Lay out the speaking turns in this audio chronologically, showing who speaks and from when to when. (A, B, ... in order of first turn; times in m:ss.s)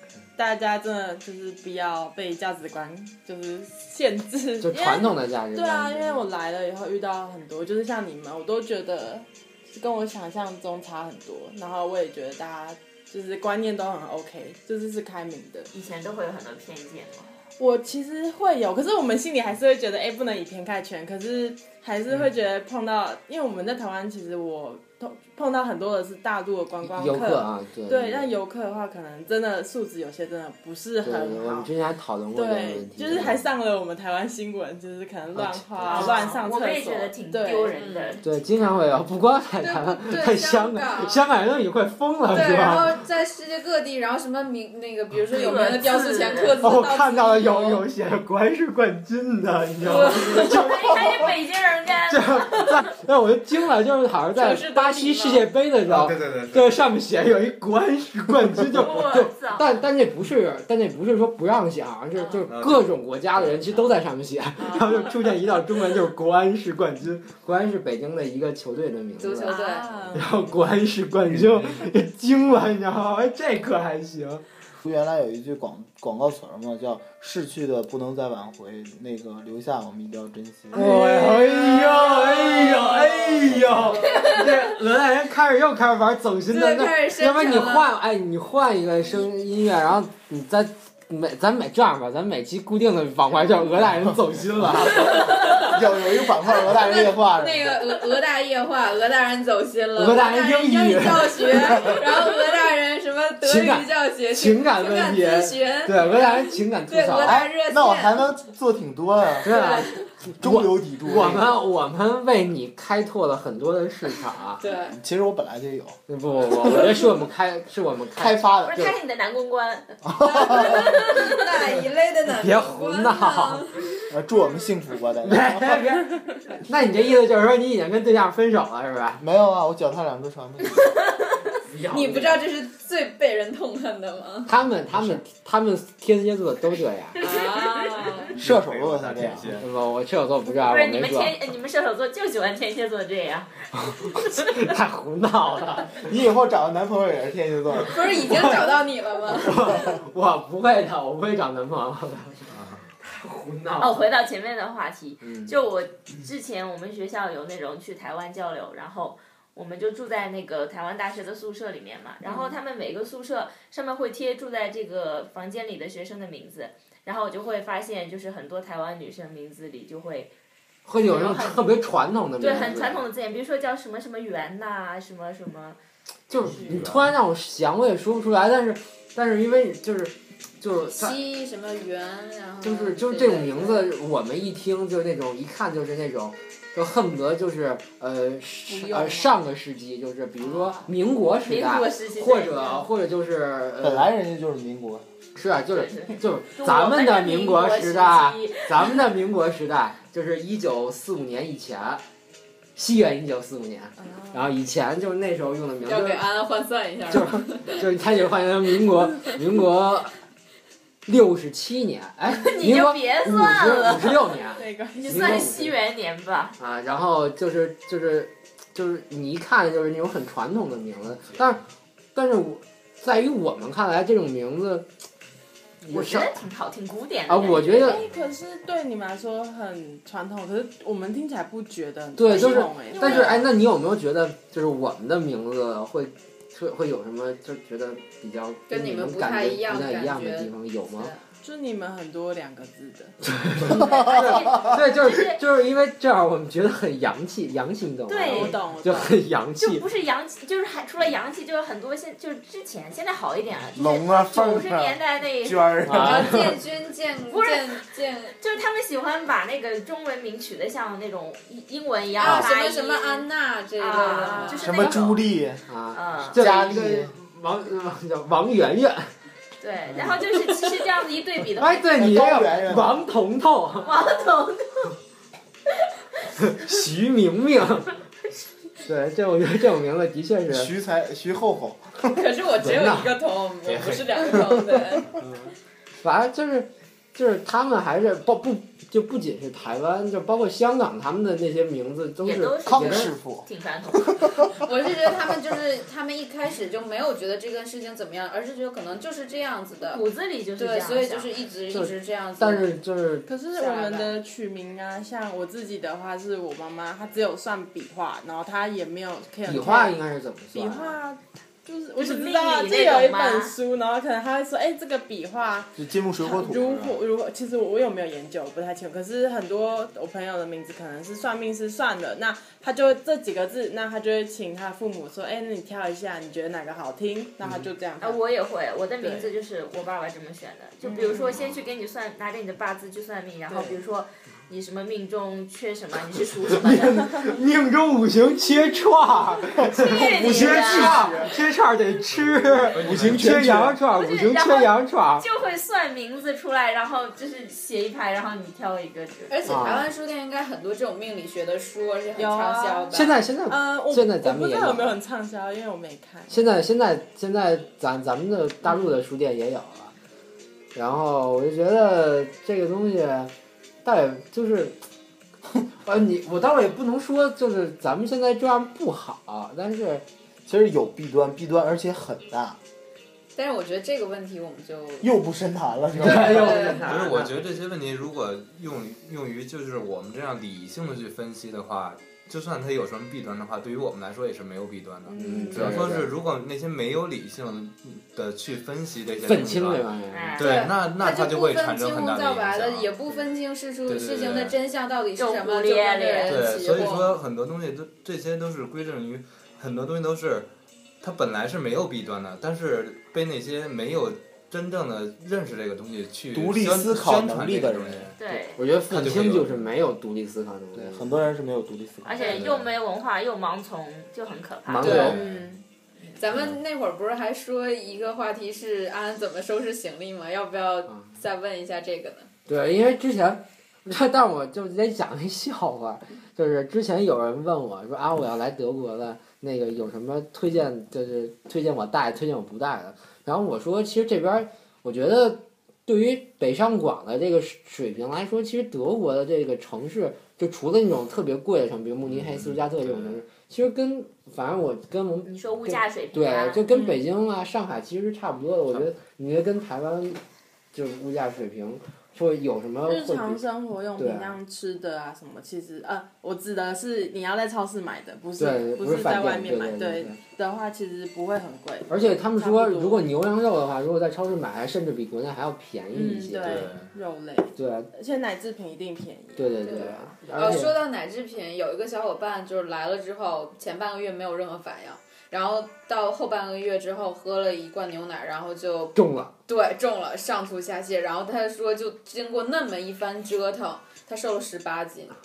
0:00.4-0:15.7 A
0:04.6-0:06.3 B
0:15.7-0:17.4 C
0:17.6-0:31.7 A
0:26.8-0:28.3 B
0:31.0-0:33.4 B
0:32.3-0:37.8 A
0:35.3-0:36.0 B
0:35.8-0:38.2 C
0:37.8-0:38.2 D
0:38.2-0:43.0 B
0:39.6-0:41.3 D
0:42.3-0:47.8 D
0:45.3-0:46.6 C
0:46.6-0:51.3 B
0:49.8-0:50.6 D
0:49.9-0:52.8 C
0:52.1-1:09.6 B
0:54.4-0:55.5 D
0:55.8-0:56.9 E
0:58.7-0:59.7 C
1:02.2-1:02.4 D
1:02.5-1:04.0 E
1:09.2-1:10.0 D
1:09.5-1:10.5 A
1:10.1-1:14.4 B
1:11.3-1:11.8 E
1:14.8-1:20.8 F
1:20.7-1:35.3 B
1:21.9-1:24.4 D
1:23.4-1:23.9 F
1:26.5-1:27.9 D
1:34.9-1:37.8 F
1:35.0-1:48.3 D
1:40.0-1:42.0 B
1:43.4-1:47.5 B
1:47.3-1:49.6 F
1:49.4-1:54.6 B
1:49.5-1:50.0 D
1:50.4-1:51.6 F
1:54.6-1:55.0 D
1:54.9-1:56.0 F
1:56.1-1:59.0 B
1:58.2-1:59.0 F
1:58.6-2:01.6 C
2:00.0-2:01.0 F
2:00.2-2:04.7 D
2:02.3-2:03.7 B
2:04.1-2:05.9 F
2:05.2-2:06.1 B
2:06.6-2:09.2 B
2:09.2-2:10.9 F
2:11.6-2:12.4 B
2:11.9-2:14.5 D
2:14.5-2:17.3 B
2:17.2-2:18.3 C
2:17.2-2:18.3 D
2:18.4-2:19.6 F
2:18.4-2:19.7 E
2:19.6-2:21.4 B
2:20.5-2:24.7 C
2:23.9-2:26.1 B
2:25.9-2:28.5 F
2:27.9-2:29.9 D
2:28.2-2:28.8 B
2:29.3-2:34.1 B
2:32.5-2:32.9 E
2:33.8-2:50.3 C
2:35.2-2:35.5 B
2:50.9-2:53.1 B
2:51.0-2:51.8 C
2:52.4-2:55.8 C
2:56.3-3:01.2 B
2:56.5-2:57.1 E
3:00.9-3:03.9 D
3:02.6-3:14.1 B
3:08.7-3:09.3 A
3:10.4-3:10.9 C
3:11.4-3:12.9 C
3:13.8-3:15.1 F
3:15.4-3:22.0 B
3:15.7-3:19.1 C
3:22.8-3:26.2 B
3:24.0-3:24.5 A
3:25.8-3:27.8 D
3:27.1-3:30.1 B
3:31.1-3:35.8 B
3:32.4-3:34.3 C
3:34.5-3:35.5 A
3:35.0-3:36.6 C
3:36.6-3:41.6 B
3:42.2-3:44.9 B
3:45.8-3:46.3 B
3:45.9-3:48.0 C
3:47.3-3:48.0 B
3:47.8-3:53.4 A
3:52.2-4:01.1 B
3:52.9-3:53.4 C
3:58.7-4:01.2 D
4:01.4-4:03.2 A
4:03.2-4:09.9 B
4:03.7-4:05.4 C
4:03.7-4:04.7 F
4:08.1-4:08.6 C
4:08.2-4:09.2 A
4:09.6-4:15.8 C
4:13.7-4:16.5 F
4:15.8-4:16.5 B
4:15.9-4:18.4 D
4:17.3-4:17.8 C
4:18.4-4:25.2 C
4:22.2-4:25.0 D
4:24.3-4:24.6 A
4:24.6-4:25.6 F
4:25.7-4:29.1 B
4:25.9-4:26.6 C
4:26.3-4:27.1 F
4:29.6-4:32.0 C
4:30.0-4:30.5 B
4:31.6-4:34.0 B
4:31.9-4:33.0 F
4:33.8-4:35.0 C
4:36.4-4:38.0 B
4:38.8-4:40.7 B
4:40.5-4:42.2 F
4:42.1-4:45.1 D
4:42.6-4:43.2 B
4:43.7-4:44.1 E
4:45.2-4:53.1 B
4:52.2-4:54.5 C
4:52.6-4:53.5 F
4:54.1-4:54.6 F
4:54.6-5:00.0 D
4:59.8-5:01.4 C
5:00.6-5:02.7 D
5:01.7-5:03.3 B
5:03.3-5:10.0 A
5:03.6-5:04.1 D
5:09.5-5:11.0 B
5:10.5-5:28.2 A
5:12.0-5:13.5 C
5:15.8-5:17.0 F
5:28.0-5:37.2 C
5:29.0-5:29.3 A
5:30.8-5:31.4 A
5:33.5-5:33.8 A
5:36.5-5:45.3 B
5:39.6-5:41.3 F
5:39.7-5:41.3 C
5:42.1-5:43.4 E
5:42.8-5:43.8 F
5:43.9-5:49.6 C
5:49.3-5:53.2 D
5:49.5-5:49.9 B
5:52.2-5:56.4 A
5:52.9-5:55.0 B
5:56.3-5:59.9 B
6:00.8-6:03.3 B
6:03.8-6:04.8 B
6:05.8-6:10.0 B
6:10.5-6:12.6 F
6:13.4-6:15.1 D
6:15.0-6:17.0 F
6:16.0-6:17.3 B
6:16.1-6:29.9 E
6:16.2-6:16.9 D
6:25.1-6:25.9 A
6:25.2-6:26.1 B
6:29.3-6:30.4 B
6:30.1-6:30.6 C
6:30.4-6:33.1 E
6:30.4-6:37.1 D
6:33.9-6:34.6 E
6:35.2-6:36.6 C
6:36.3-6:40.5 E
6:41.0-6:48.4 E
6:46.3-6:48.1 F
6:48.2-6:48.6 C
6:48.6-6:51.1 B
6:48.9-6:49.7 E
6:50.8-6:52.4 F
6:52.0-6:55.2 C
6:54.7-6:55.2 B
6:54.8-6:55.2 D
6:55.0-6:55.5 E
6:56.2-7:02.3 D
7:02.5-7:30.2 B
7:22.0-7:23.2 E
7:25.2-7:26.8 C
7:30.7-7:33.4 B
7:32.8-7:43.1 A
7:34.0-7:34.4 B
7:38.4-7:40.2 B
7:41.9-7:46.7 B
7:45.9-7:50.6 A
7:46.4-7:46.9 E
7:47.6-7:47.9 B
7:49.4-7:50.8 B
7:49.7-8:05.1 D
7:59.0-7:59.3 B